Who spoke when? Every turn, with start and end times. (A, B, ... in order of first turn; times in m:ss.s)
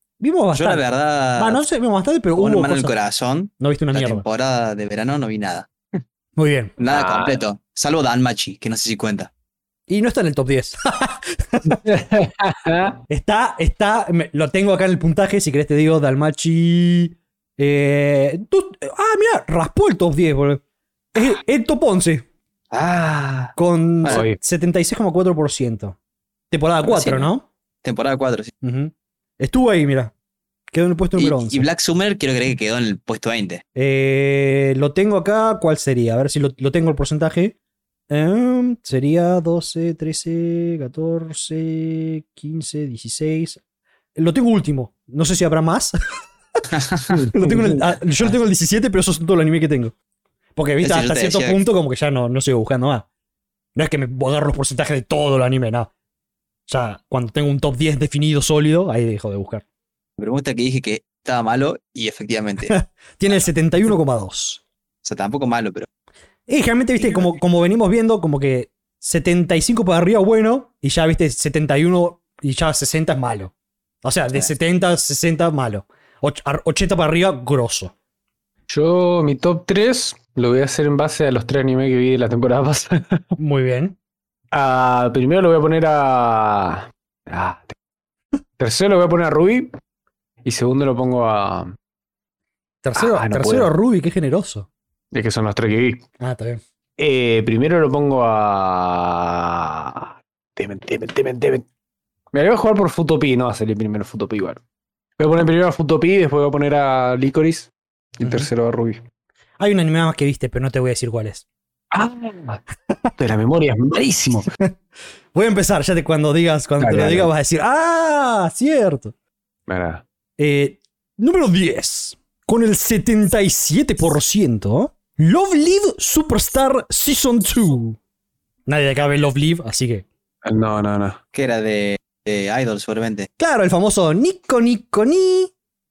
0:00.2-0:00.8 A
0:00.6-0:01.6 B
0:01.4-0:02.9 A
0:02.4-0:05.7 B
0:03.6-0:04.2 A
0:06.4-0:06.7 A
0:06.8-0:09.3 B
0:06.9-0:07.4 C
0:09.9-0:11.8 A
0:11.7-0:13.0 C
0:13.1-0:20.6 A
0:21.1-0:22.3 A
0:22.7-0:24.2 B
0:23.6-0:26.0 A
0:24.1-0:24.4 C
0:26.5-0:27.4 A
0:26.8-0:27.3 B
0:27.8-0:28.5 B
0:28.6-0:30.1 A
0:30.7-0:31.6 A
0:31.2-0:33.6 B
0:33.8-0:37.6 A
0:38.1-0:43.6 A
0:44.1-0:46.0 A
0:46.8-0:47.1 B
0:47.1-0:47.8 C
0:47.3-0:49.9 A
0:50.6-0:53.1 A
0:50.8-0:51.6 B
0:53.8-0:55.9 A
0:56.7-0:59.6 A
1:00.2-1:02.8 B
1:02.7-1:04.6 A
1:05.0-1:05.9 B
1:06.5-1:13.5 A
1:07.0-1:07.3 B
1:14.0-1:17.9 A
1:18.7-1:23.3 C
1:23.4-1:24.0 A
1:24.5-1:27.8 C
1:28.6-1:29.7 C
1:30.4-1:31.8 C
1:32.8-1:34.7 A
1:33.0-1:33.7 C
1:35.1-1:36.0 C
1:36.2-1:36.6 A
1:37.0-1:41.6 C
1:42.3-1:44.6 C
1:45.2-1:49.0 C
1:48.2-1:48.5 A
1:49.6-1:51.4 A
1:51.9-1:52.6 C
1:53.2-1:54.5 C
1:55.3-1:59.1 A
1:56.8-1:57.3 C
1:59.7-2:00.0 C
2:00.4-2:08.0 A
2:08.7-2:10.1 A
2:10.4-2:11.2 C
2:11.3-2:13.3 B
2:13.4-2:15.5 A